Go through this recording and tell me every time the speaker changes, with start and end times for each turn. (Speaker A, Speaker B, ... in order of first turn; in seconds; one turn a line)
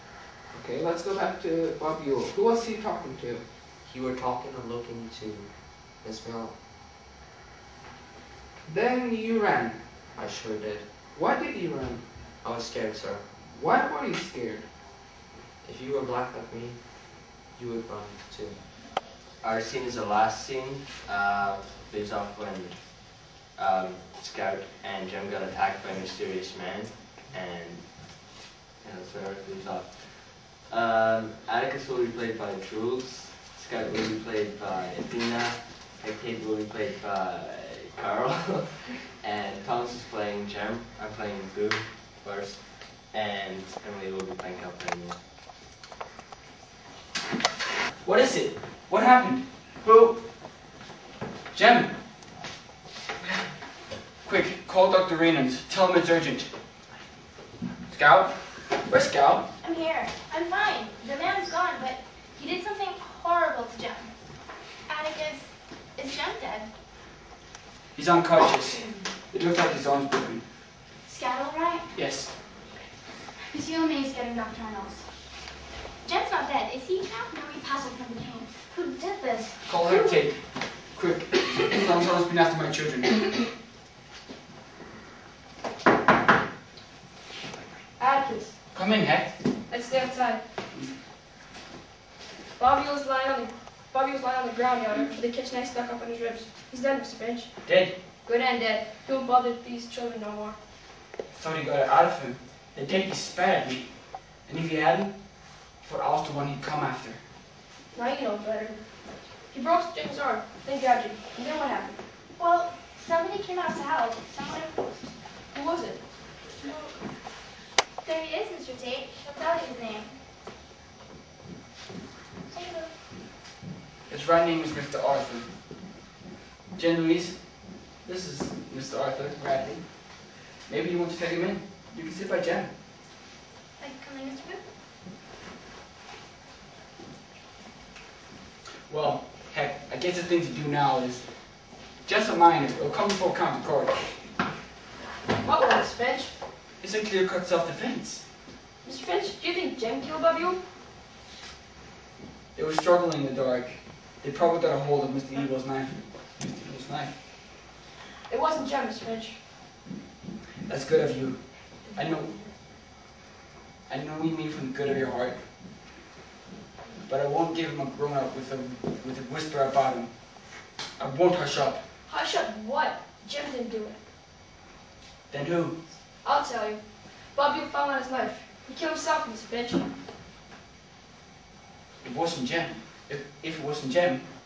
Speaker A: 0.5-3.4
Speaker B: 3.8-6.5
Speaker A: 8.7-10.0
Speaker B: 10.1-10.9
Speaker A: 11.1-12.0
Speaker B: 12.4-13.3
Speaker A: 13.4-14.7
Speaker B: 15.6-18.6
Speaker C: 19.4-45.2
Speaker D: 48.0-50.3
Speaker D: 51.5-52.0
Speaker D: 54.2-56.5
Speaker D: 57.9-59.5
Speaker E: 59.6-64.1
Speaker E: 64.8-66.7
Speaker D: 67.9-70.4
Speaker E: 68.8-69.0
Speaker E: 71.0-71.9
Speaker D: 71.9-72.4
Speaker E: 73.4-75.1
Speaker E: 76.0-80.2
Speaker D: 79.7-83.3
Speaker F: 88.0-88.5
Speaker D: 88.7-89.4
Speaker F: 89.7-90.4
Speaker F: 92.5-97.7
Speaker D: 97.6-97.9
Speaker F: 98.2-100.6
Speaker D: 101.3-107.2
Speaker F: 107.9-108.8
Speaker F: 109.5-112.0
Speaker E: 112.4-115.1
Speaker F: 115.5-116.0
Speaker E: 116.6-117.0
Speaker E: 118.0-120.1
Speaker E: 122.5-122.9
Speaker D: 124.1-125.5
Speaker D: 126.8-132.7
Speaker E: 133.8-134.6
Speaker D: 138.9-144.2
Speaker F: 145.4-146.3
Speaker D: 146.8-148.2
Speaker F: 148.8-150.6
Speaker D: 152.5-157.2
Speaker F: 158.3-159.4
Speaker D: 160.6-162.3
Speaker D: 163.9-165.5
Speaker D: 167.1-171.8
Speaker F: 172.1-174.0
Speaker D: 175.3-175.8
Speaker F: 176.2-179.9
Speaker D: 182.0-184.3